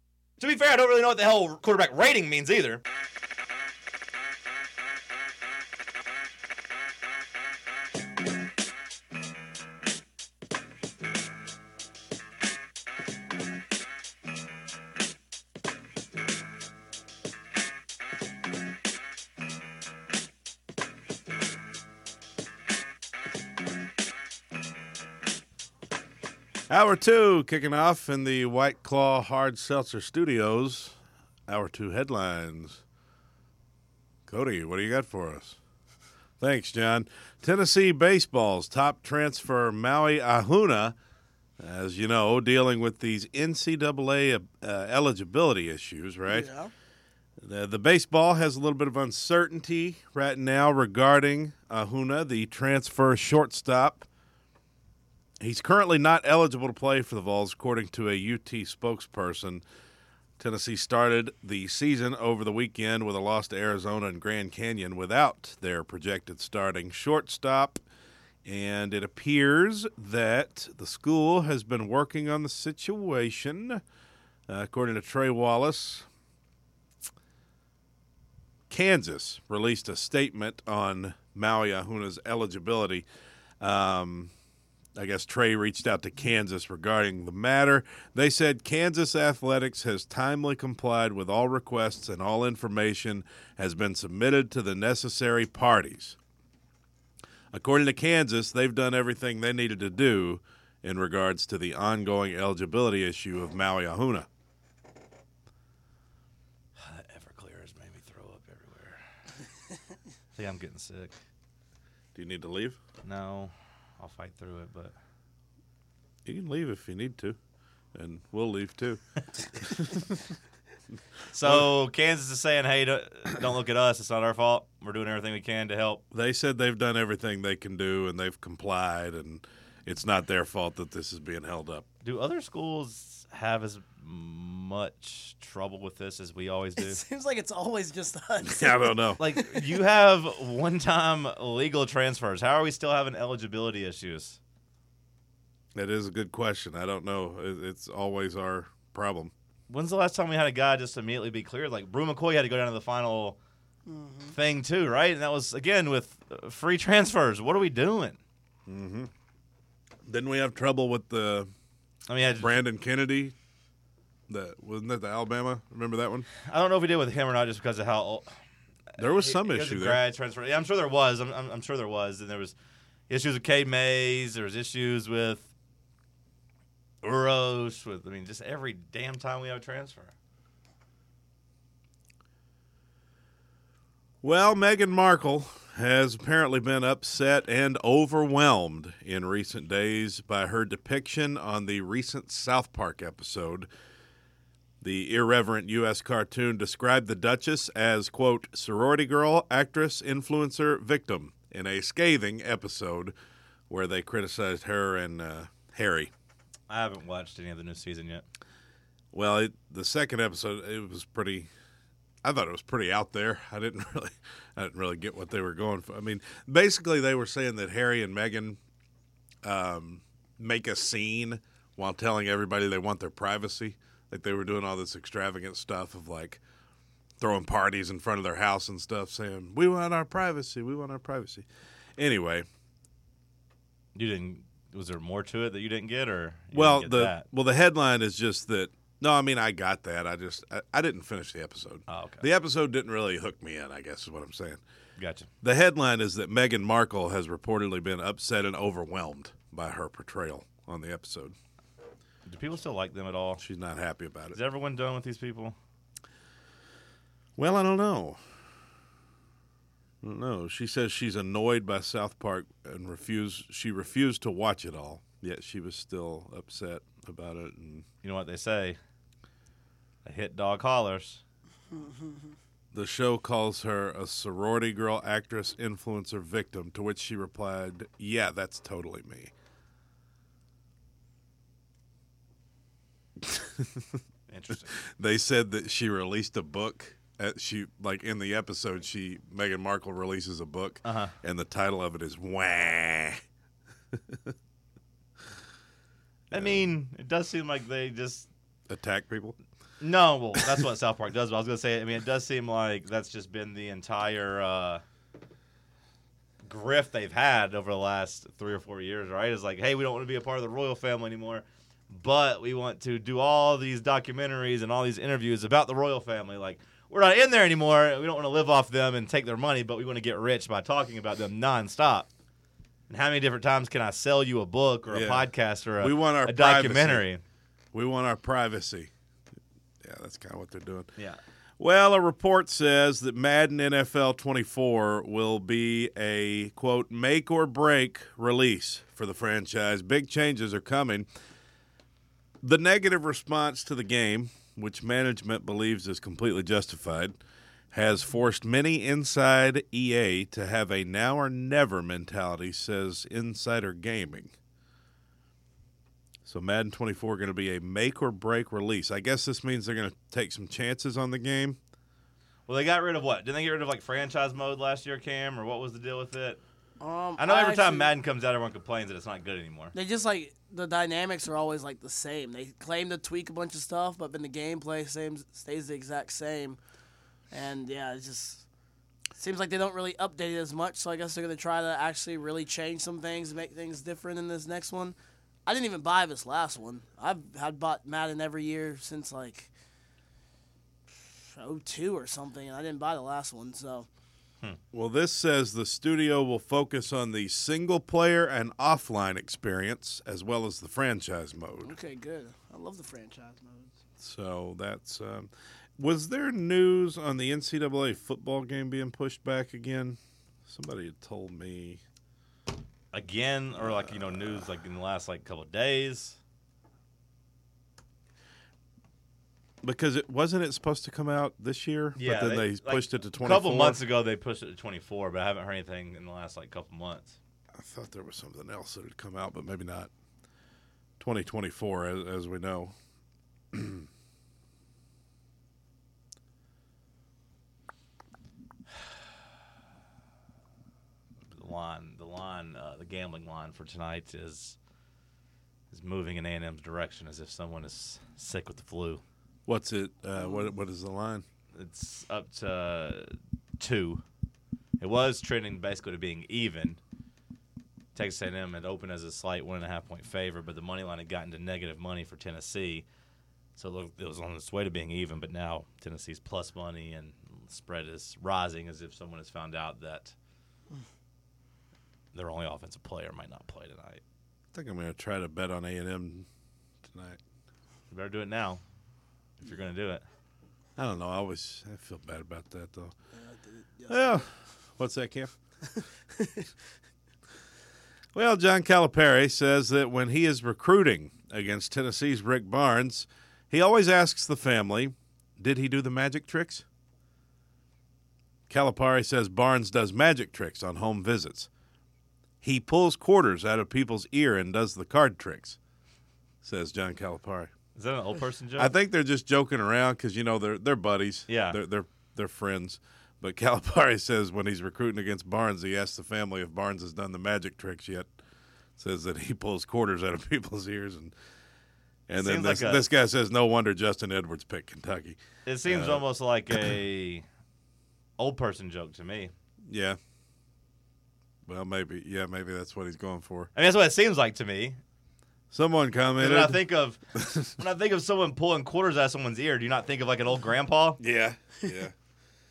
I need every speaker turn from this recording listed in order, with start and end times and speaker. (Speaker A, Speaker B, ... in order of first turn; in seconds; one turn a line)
Speaker A: 0.4-2.8
Speaker B: 26.7-32.8
Speaker B: 34.3-35.6
Speaker B: 36.4-41.0
Speaker B: 41.6-46.5
Speaker C: 46.3-46.7
Speaker B: 47.4-54.1
Speaker B: 55.4-59.6
Speaker B: 60.4-67.8
Speaker B: 68.4-73.8
Speaker B: 74.5-76.1
Speaker B: 78.7-83.0
Speaker B: 83.6-84.3
Speaker B: 84.9-96.2
Speaker B: 97.5-104.3
Speaker A: 106.8-109.0
Speaker A: 110.3-111.1
Speaker B: 112.1-112.8
Speaker A: 113.0-114.9
Speaker B: 116.2-117.4
Speaker B: 117.9-119.0
Speaker B: 119.5-120.3
Speaker A: 121.3-126.0
Speaker B: 121.4-121.7
Speaker B: 126.1-131.8
Speaker A: 132.0-137.0
Speaker C: 136.8-139.6
Speaker B: 138.4-139.2
Speaker A: 139.2-144.4
Speaker B: 145.7-149.3
Speaker A: 149.7-153.4
Speaker C: 153.9-154.3
Speaker A: 154.3-158.2
Speaker B: 158.7-159.1
Speaker B: 160.1-161.5
Speaker A: 162.1-162.6
Speaker B: 162.4-163.3
Speaker B: 164.3-166.3
Speaker A: 166.4-168.3
Speaker A: 168.9-172.5
Speaker B: 169.0-170.0
Speaker A: 173.1-175.5
Speaker A: 177.0-180.1
Speaker B: 184.2-193.7
Speaker B: 194.8-203.1
Speaker B: 203.7-206.1
Speaker A: 206.7-208.2
Speaker B: 209.1-211.5
Speaker B: 212.2-218.6
Speaker B: 219.4-226.4
Speaker B: 227.2-232.4
Speaker A: 233.9-237.2
Speaker B: 236.5-244.6
Speaker A: 241.9-242.2
Speaker A: 245.0-245.3
Speaker B: 245.4-251.3
Speaker A: 252.2-253.4
Speaker B: 253.4-254.4
Speaker A: 254.3-255.6
Speaker B: 257.4-258.2
Speaker B: 260.0-267.9
Speaker A: 268.0-268.8
Speaker A: 270.0-271.2
Speaker C: 271.7-272.3
Speaker B: 272.7-279.3
Speaker B: 283.2-284.0
Speaker A: 284.3-284.7
Speaker B: 284.8-293.2
Speaker A: 290.8-291.1
Speaker B: 293.9-294.3
Speaker B: 296.3-296.7
Speaker A: 296.3-298.3
Speaker B: 298.7-299.4
Speaker A: 299.8-304.8
Speaker A: 306.4-322.1
Speaker A: 322.9-327.2
Speaker B: 324.9-327.1
Speaker B: 327.7-328.9
Speaker B: 329.8-330.9
Speaker B: 331.6-341.1
Speaker B: 342.4-347.1
Speaker B: 347.7-354.3
Speaker B: 356.2-361.6
Speaker A: 362.5-366.4
Speaker C: 366.8-367.9
Speaker A: 367.2-369.7
Speaker C: 369.7-376.6
Speaker C: 377.3-378.4
Speaker C: 379.1-389.5
Speaker C: 391.0-393.9
Speaker B: 394.7-401.7
Speaker C: 401.6-403.7
Speaker B: 404.0-411.8
Speaker A: 412.9-416.2
Speaker B: 413.8-414.2
Speaker B: 419.6-423.8
Speaker A: 421.9-427.2
Speaker B: 427.5-429.9
Speaker B: 431.0-432.7
Speaker B: 433.5-433.9
Speaker A: 441.3-444.6
Speaker A: 445.7-449.0
Speaker B: 449.5-451.2
Speaker A: 451.5-454.0
Speaker A: 454.8-456.8
Speaker A: 457.9-462.9
Speaker A: 463.6-470.1
Speaker A: 472.1-474.0
Speaker B: 474.5-476.3
Speaker B: 476.9-477.2
Speaker A: 477.9-478.6
Speaker A: 479.4-480.0
Speaker B: 480.8-482.9
Speaker C: 483.2-484.1
Speaker B: 483.9-485.4
Speaker B: 488.1-496.6
Speaker B: 498.5-501.5
Speaker B: 502.4-505.6
Speaker B: 506.4-507.5
Speaker A: 507.7-508.7
Speaker B: 508.6-518.1
Speaker A: 511.3-511.6
Speaker B: 518.8-521.1
Speaker B: 522.1-526.0
Speaker A: 522.1-522.8
Speaker A: 525.5-527.2
Speaker A: 528.2-529.3
Speaker B: 529.6-530.0
Speaker B: 531.5-533.5
Speaker A: 533.5-534.8
Speaker B: 535.5-536.6
Speaker A: 536.2-541.0
Speaker B: 537.1-537.5
Speaker B: 541.0-541.9